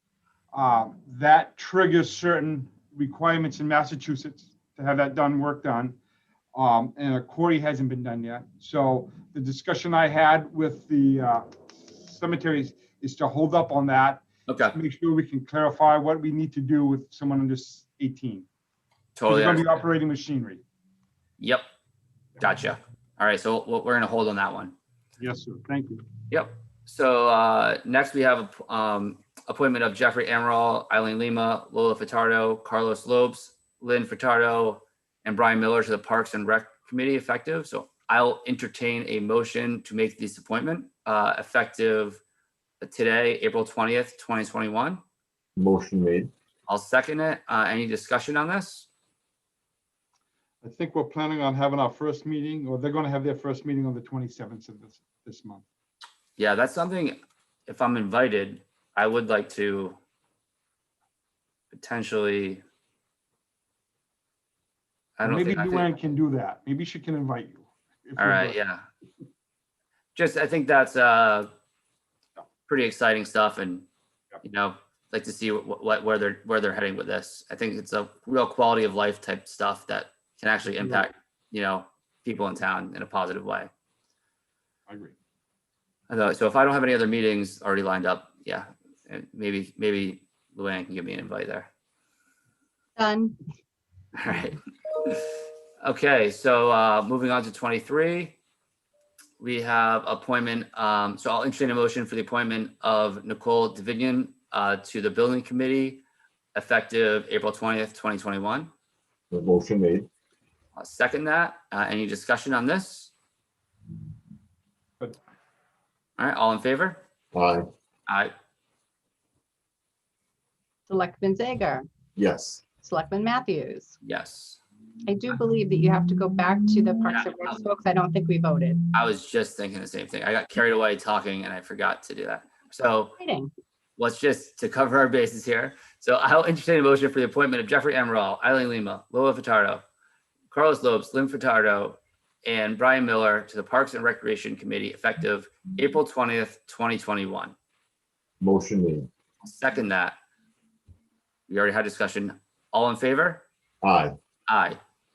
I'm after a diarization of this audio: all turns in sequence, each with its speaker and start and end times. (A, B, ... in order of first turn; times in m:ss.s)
0:00.5-0:06.0 A
0:06.5-0:18.4 A
0:14.5-0:14.7 B
0:19.2-0:19.8 B
0:19.2-0:20.6 A
0:21.4-0:21.6 B
0:22.4-0:24.7 B
0:25.2-0:26.0 A
0:26.3-0:42.2 B
0:42.8-0:45.0 B
0:45.6-0:46.3 C
0:46.7-0:48.9 B
0:50.6-0:55.7 A
0:56.4-1:00.0 B
1:01.7-1:02.6 B
1:05.2-1:05.9 B
1:05.2-1:08.6 A
1:08.2-1:08.8 B
1:10.1-1:11.5 B
1:12.7-1:13.8 B
1:14.4-1:23.7 B
1:20.8-1:21.1 A
1:24.9-1:25.1 A
1:26.1-1:31.7 B
1:33.0-1:33.4 D
1:34.2-1:35.3 B
1:35.8-1:38.4 B
1:39.4-1:46.0 B
1:46.5-1:48.7 B
1:49.3-1:50.1 C
1:50.8-1:53.1 B
1:56.2-1:57.0 B
1:57.3-1:57.7 C
1:58.1-1:58.3 B
2:00.9-2:01.9 D
2:02.2-2:02.6 C
2:02.8-2:04.0 D
2:04.0-2:04.6 B
2:05.0-2:08.8 D
2:07.1-2:07.6 B
2:08.9-2:13.2 B
2:13.2-2:13.5 D
2:14.0-2:19.8 B
2:20.5-2:27.5 B
2:28.4-2:29.1 C
2:29.4-2:30.2 B
2:31.5-2:33.4 B
2:33.8-2:34.2 C
2:34.5-2:34.8 B